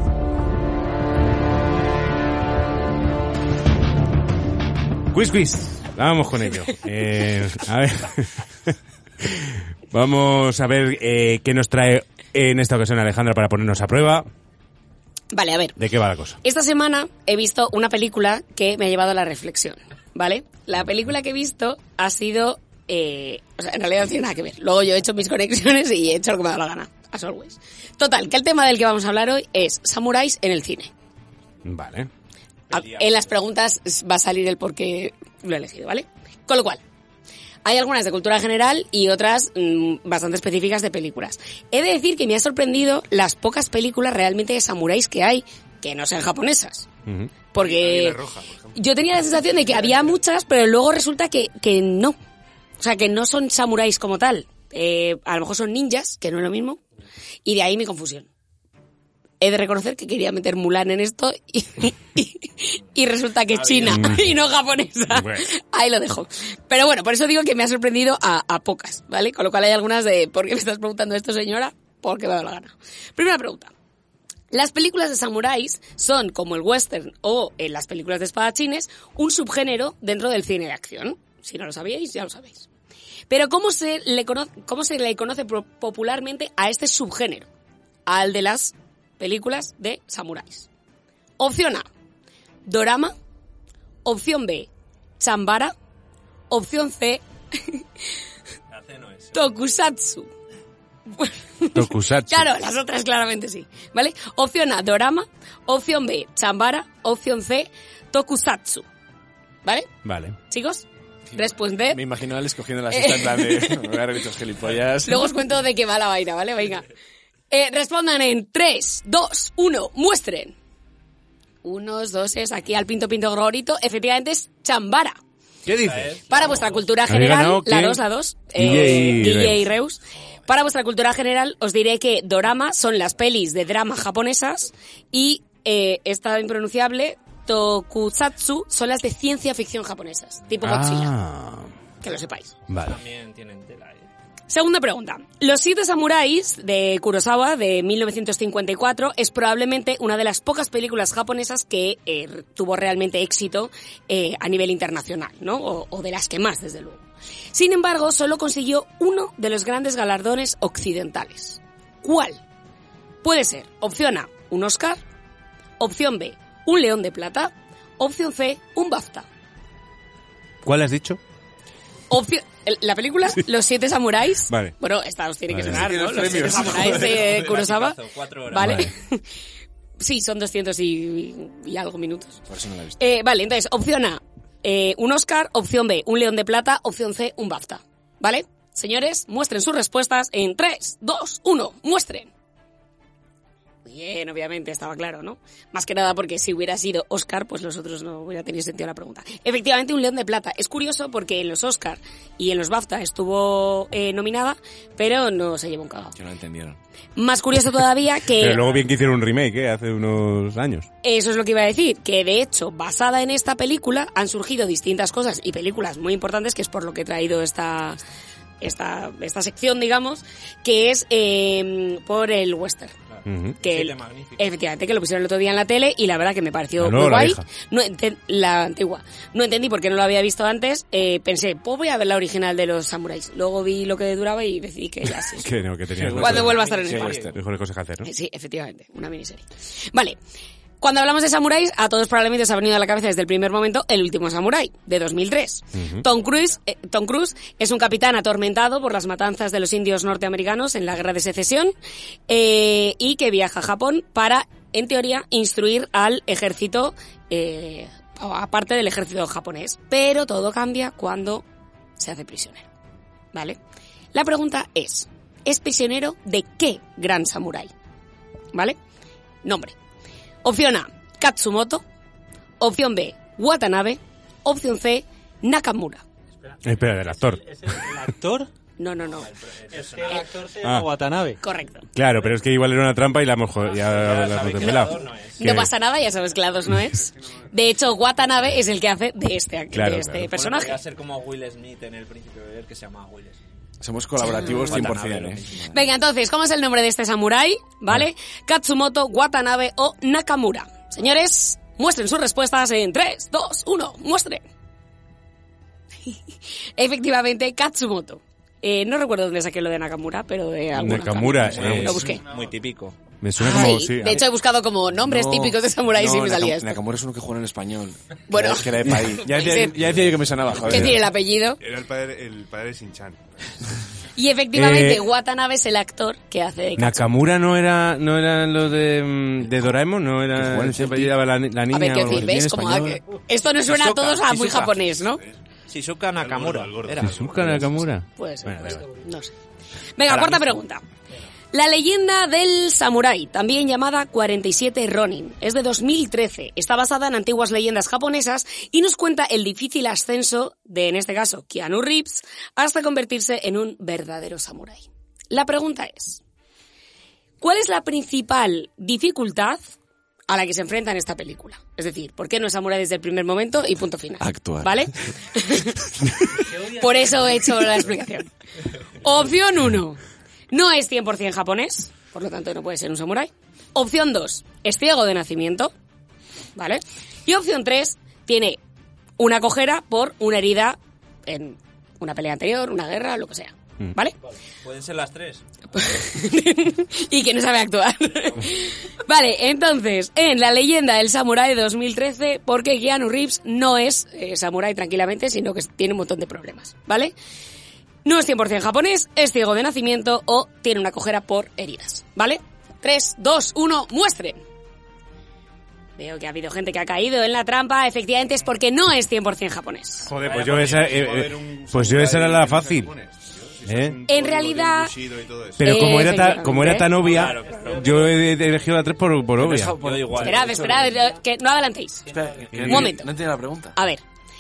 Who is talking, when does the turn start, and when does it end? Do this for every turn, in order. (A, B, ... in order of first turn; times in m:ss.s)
0:05.1-0:14.3 A
0:15.3-0:15.8 B
0:15.8-0:16.4 A
0:16.4-0:30.9 B
0:31.6-0:32.1 A
0:32.7-0:36.8 B
0:32.7-0:33.3 C
0:37.6-0:46.9 B
0:47.1-0:47.3 A
0:47.5-0:48.2 B
0:47.6-0:48.7 D
0:48.8-0:52.2 B
0:52.8-0:56.8 B
0:57.4-0:58.3 B
0:59.4-1:13.7 B
1:03.5-1:04.4 C
1:03.8-1:04.3 A
1:05.1-1:05.5 A
1:14.5-1:22.7 B
1:23.3-1:27.5 B
1:28.1-1:30.7 B
1:31.4-1:31.9 B
1:32.6-1:33.2 B
1:34.0-1:34.7 B
1:35.2-1:35.7 B
1:36.5-1:37.8 B
1:38.7-1:39.5 C
1:39.3-1:40.3 B
1:41.1-1:48.8 B
1:41.8-1:42.5 A
1:49.6-1:49.9 B
1:50.0-1:50.4 A
1:50.5-1:52.0 B
1:51.3-1:55.3 E
1:52.9-1:53.9 B
1:55.0-1:56.9 B
1:57.5-2:00.6 B
2:01.6-2:05.2 B
2:05.7-2:06.2 A
2:05.8-2:06.8 C
2:06.3-2:21.1 B
2:07.1-2:08.0 A
2:08.5-2:09.7 A
2:20.6-2:21.7 A
2:22.0-2:22.6 B
2:22.7-2:23.0 A
2:22.8-2:24.1 C
2:24.5-2:42.4 B
2:43.2-2:45.0 B
2:45.8-2:49.3 B
2:50.6-2:51.2 A
2:52.1-2:59.2 B
2:54.5-2:54.7 A
2:55.5-2:55.9 A
2:55.6-2:57.4 E
2:56.1-2:58.9 C
2:58.6-2:58.9 A
3:00.0-3:02.4 B
3:02.5-3:03.0 E
3:03.0-3:12.3 B
3:13.9-3:26.1 B
3:26.1-3:26.8 E
3:27.2-3:28.7 B
3:28.3-3:30.9 A
3:31.0-3:38.0 B
3:38.6-3:42.9 B
3:43.1-3:44.5 C
3:43.3-3:43.6 A
3:43.6-3:55.5 B
3:46.8-3:47.5 A
3:55.4-3:56.6 A
3:56.0-3:57.4 E
3:56.2-3:57.2 B
3:56.3-3:57.3 C
3:57.3-3:58.1 A
3:58.0-4:00.2 B
4:00.8-4:11.7 B
4:05.8-4:06.0 A
4:12.3-4:21.4 B
4:22.0-4:22.7 B
4:24.1-4:27.7 B
4:29.4-4:29.7 B
4:30.4-4:31.8 B
4:32.6-4:36.0 B
4:36.6-4:38.0 A
4:37.6-4:38.5 F
4:38.8-4:39.3 B
4:39.2-4:40.3 C
4:39.7-4:41.4 F
4:40.6-4:40.9 A
4:41.4-4:41.9 B
4:41.9-4:45.7 A
4:43.7-4:45.4 C
4:45.4-4:50.8 B
4:49.7-4:50.3 A
4:50.3-4:53.4 C
4:53.8-4:55.8 E
4:54.2-4:54.9 B
4:54.6-4:55.6 C
4:55.7-5:04.4 B
5:06.8-5:12.2 B
5:10.7-5:12.1 A
5:11.3-5:13.0 C
5:11.4-5:12.6 D
5:13.2-5:14.2 A
5:13.4-5:16.8 B
5:15.0-5:21.0 E
5:18.3-5:19.8 B
5:20.6-5:21.6 B
5:20.7-5:21.0 A
5:21.6-5:23.6 D
5:24.2-5:27.1 B
5:24.5-5:25.0 A
5:26.8-5:33.0 A
5:30.3-5:31.1 E
5:31.7-5:35.2 B
5:33.6-5:34.8 C
5:35.1-5:35.3 D
5:35.7-5:37.6 C
5:36.2-5:37.9 D
5:37.0-5:38.8 A
5:38.2-5:39.3 B
5:40.0-5:40.8 B
5:40.1-5:40.5 C
5:41.5-5:56.2 B
5:57.4-5:59.6 B
6:00.3-6:08.3 B
6:04.2-6:04.9 E
6:09.0-6:10.0 B
6:10.5-6:15.7 B
6:16.6-6:18.6 B
6:19.2-6:24.2 B
6:24.6-6:25.4 C
6:25.7-6:37.1 B
6:38.0-6:44.4 B
6:46.0-6:50.1 B
6:50.1-6:52.9 A
6:50.1-6:55.8 D
6:53.7-6:54.0 A
6:54.1-6:55.0 B
6:55.6-6:59.8 A
6:55.6-6:57.0 B
6:57.0-6:58.2 C
6:59.4-7:01.0 E
6:59.8-7:01.0 C
7:00.1-7:03.1 B
7:02.1-7:03.8 E
7:02.5-7:02.9 A
7:03.8-7:04.0 B